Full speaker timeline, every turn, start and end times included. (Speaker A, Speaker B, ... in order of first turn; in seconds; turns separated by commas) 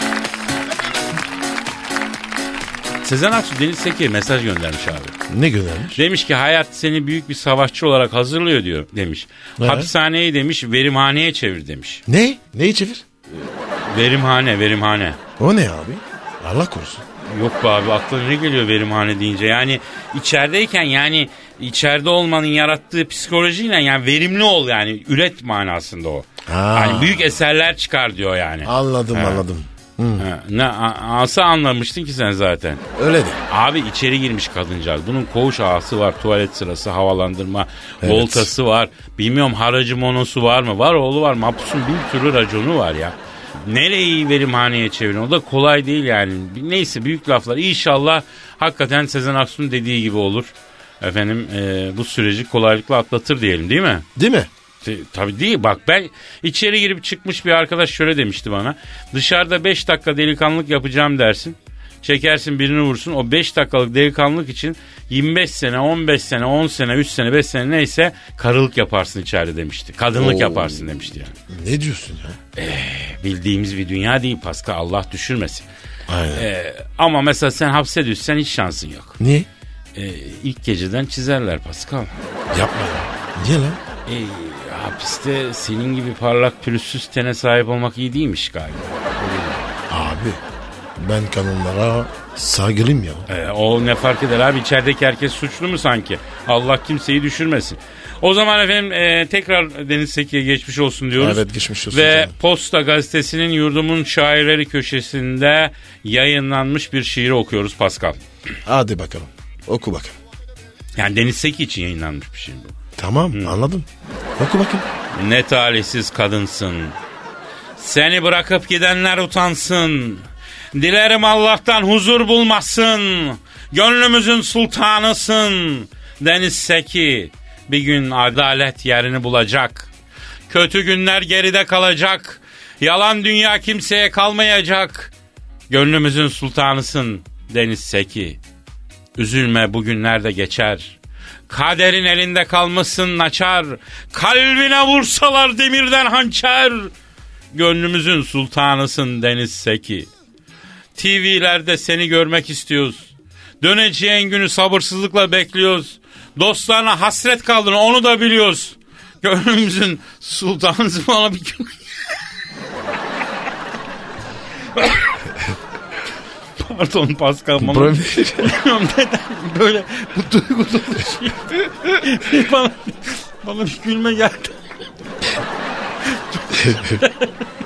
Speaker A: 3.0-5.2, Speaker B: 5.3-6.0, Speaker A: 6.0-12.0, Speaker B: 9.6-9.9, Speaker B: 12.1-13.0, Speaker A: 13.3-15.2, Speaker B: 15.4-17.0, Speaker A: 17.3-29.4, Speaker B: 26.4-27.3, Speaker B: 28.6-30.3, Speaker A: 30.2-32.8, Speaker B: 33.0-33.4, Speaker A: 33.5-54.0, Speaker B: 38.0-38.5, Speaker B: 54.1-54.5, Speaker A: 54.8-71.3, Speaker B: 70.1-72.4, Speaker A: 72.5-75.7, Speaker B: 76.1-76.5, Speaker A: 76.3-79.2, Speaker B: 79.2-79.5, Speaker A: 80.0-82.1, Speaker B: 82.5-83.8, Speaker A: 84.0-89.7, Speaker B: 89.9-90.4, Speaker B: 91.0-93.2, Speaker A: 93.3-108.2, Speaker B: 101.2-102.3, Speaker B: 108.7-110.2, Speaker A: 111.0-112.7, Speaker B: 113.0-114.9, Speaker A: 115.1-117.0, Speaker A: 117.8-129.9, Speaker A: 130.5-135.1, Speaker A: 135.7-138.4, Speaker A: 139.2-140.9, Speaker A: 141.5-146.9, Speaker A: 147.5-150.1, Speaker A: 150.9-161.8, Speaker A: 164.7-165.1, Speaker A: 166.6-174.5, Speaker B: 167.6-168.6, Speaker A: 176.0-177.3, Speaker B: 176.5-177.0